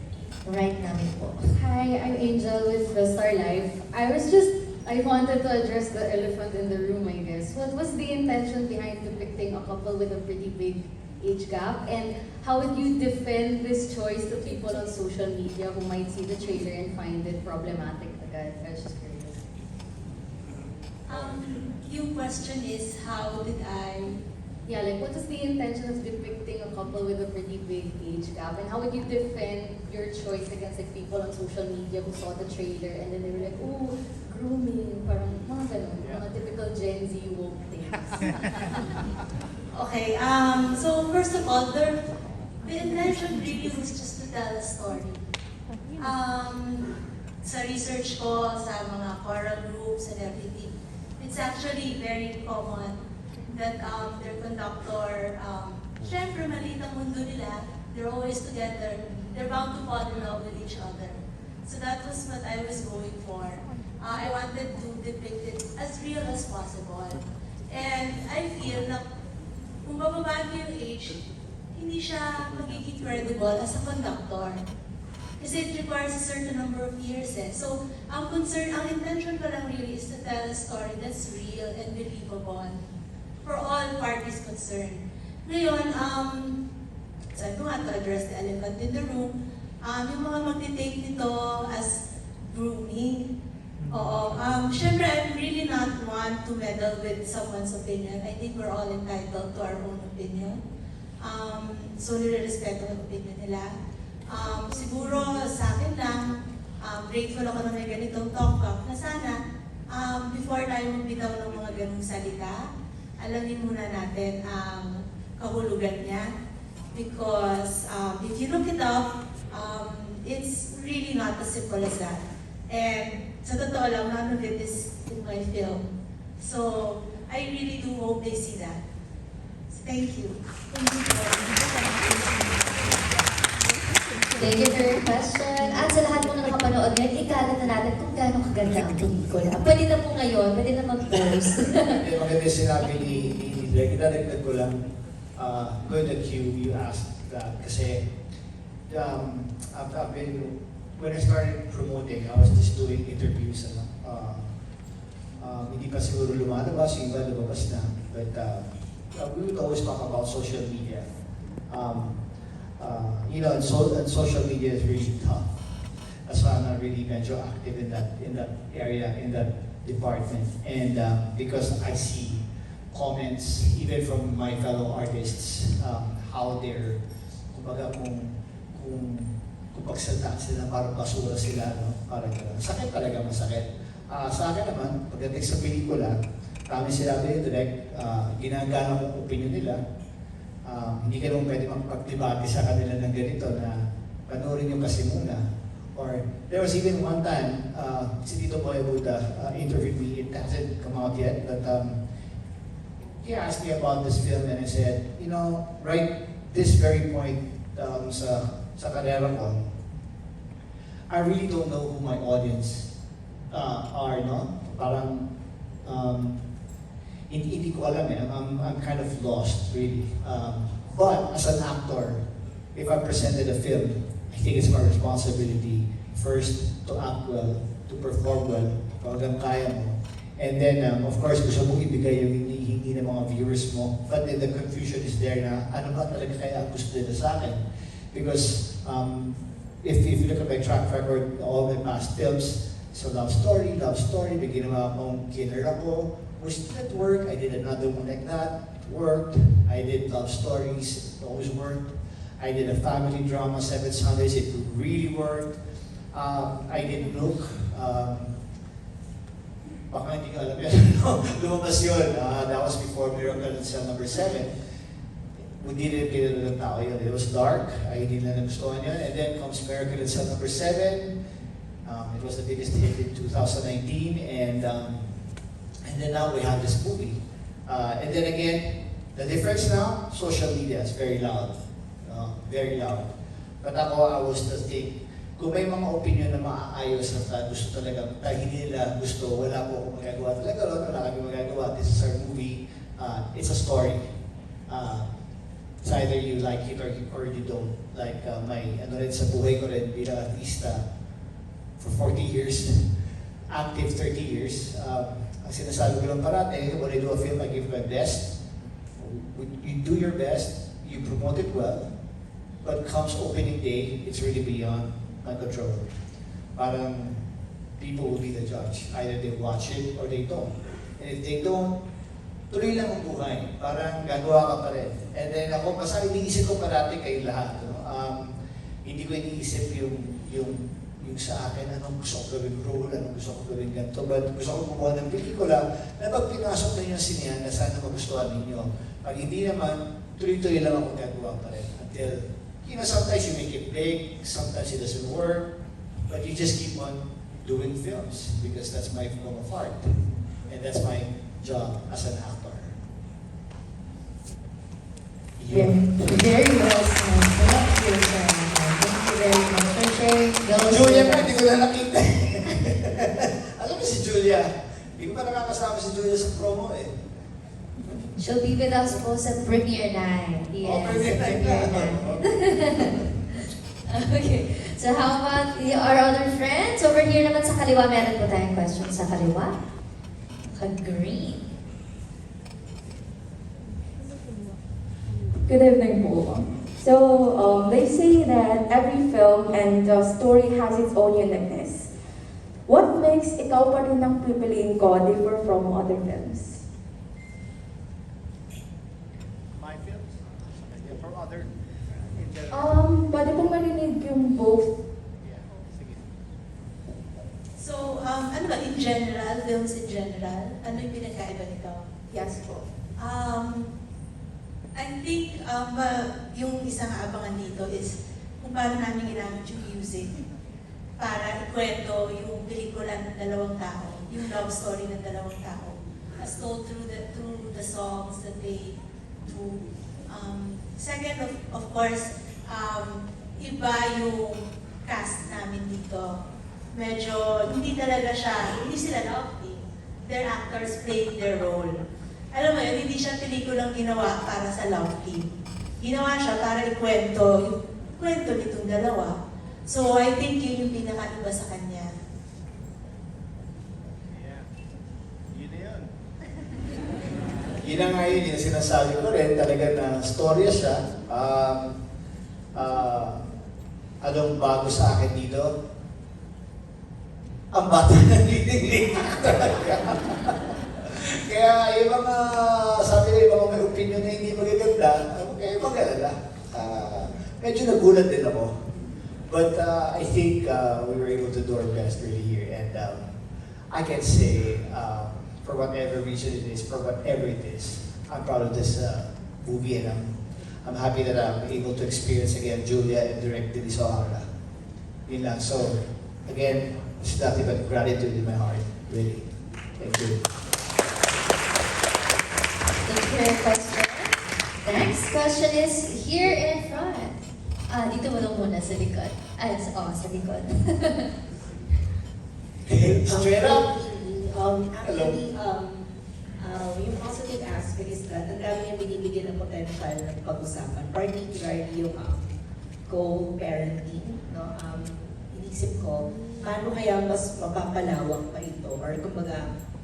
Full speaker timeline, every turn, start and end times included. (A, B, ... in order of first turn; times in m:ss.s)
0:00.4-0:01.4 A
0:01.5-0:19.4 B
0:21.1-0:24.2 C
0:24.6-0:38.7 B
0:39.7-0:45.2 C
0:46.0-0:53.0 C
0:53.5-1:09.0 C
1:09.8-1:14.6 C
1:15.4-1:22.8 C
1:23.4-1:26.6 C
1:27.3-1:32.0 C
1:32.5-1:33.3 C
1:33.9-1:40.6 C
1:41.2-1:43.7 C
1:44.3-1:49.4 C
1:49.9-1:52.7 C
1:53.2-1:56.3 C
1:56.9-2:05.8 C
2:06.4-2:08.8 C
2:09.7-2:10.4 C
2:14.4-2:22.0 A
2:22.0-2:24.8 D
2:25.4-2:28.0 D
2:28.9-2:34.5 D
2:35.4-2:41.0 D
2:41.7-2:42.2 D
2:42.8-2:45.4 D
2:46.3-2:57.0 D
2:57.5-3:06.1 D
3:06.7-3:09.8 D
3:10.6-3:15.4 D
3:15.9-3:22.0 D
3:23.2-3:29.7 D
3:31.1-3:32.9 D
3:33.5-3:35.3 D
3:35.8-3:36.4 D
3:37.3-3:42.2 D
3:42.7-3:57.6 D
3:58.1-4:15.6 D
4:16.1-4:18.3 D
4:19.9-4:24.5 D
4:25.6-4:31.1 D
4:31.8-4:35.2 D
4:35.8-4:43.1 D
4:43.6-4:54.1 D
4:54.7-4:55.1 D
4:55.8-5:00.8 D
5:01.8-5:02.8 D
5:03.5-5:08.4 D
5:09.0-5:11.9 D
5:12.6-5:15.9 D
5:16.6-5:17.2 D
5:17.8-5:21.7 D
5:22.5-5:28.3 D
5:28.8-5:45.5 D
5:46.1-5:52.7 D
5:55.4-5:56.1 D
5:55.5-5:56.2 E
5:56.1-6:01.3 A
6:00.4-6:06.9 D
6:08.2-6:12.9 A
6:10.6-6:13.0 D
6:13.9-6:19.6 A
6:20.5-6:21.4 A
6:25.4-6:31.9 E
6:32.6-6:36.6 E
6:39.5-6:41.5 D
6:42.1-6:42.7 D
6:42.5-6:44.8 E
6:45.2-6:46.0 D
6:47.6-6:51.8 C
6:52.1-6:52.7 E
6:53.0-6:53.7 C
6:54.7-7:00.1 C
7:01.0-7:16.2 C
7:16.7-7:21.7 C
7:22.3-7:25.3 C
7:25.8-7:31.9 C
7:34.1-7:34.4 D
7:35.3-7:35.9 D
7:37.6-7:41.8 D
7:42.5-7:43.2 D
7:44.0-7:45.5 D
7:47.5-7:58.7 D
7:59.3-8:03.2 D
8:03.7-8:14.2 D
8:15.1-8:19.3 D
8:19.8-8:20.2 D
8:22.8-8:31.1 A
8:32.6-8:33.7 D
8:32.9-8:42.3 F
8:34.8-8:35.2 D
8:42.9-8:49.4 F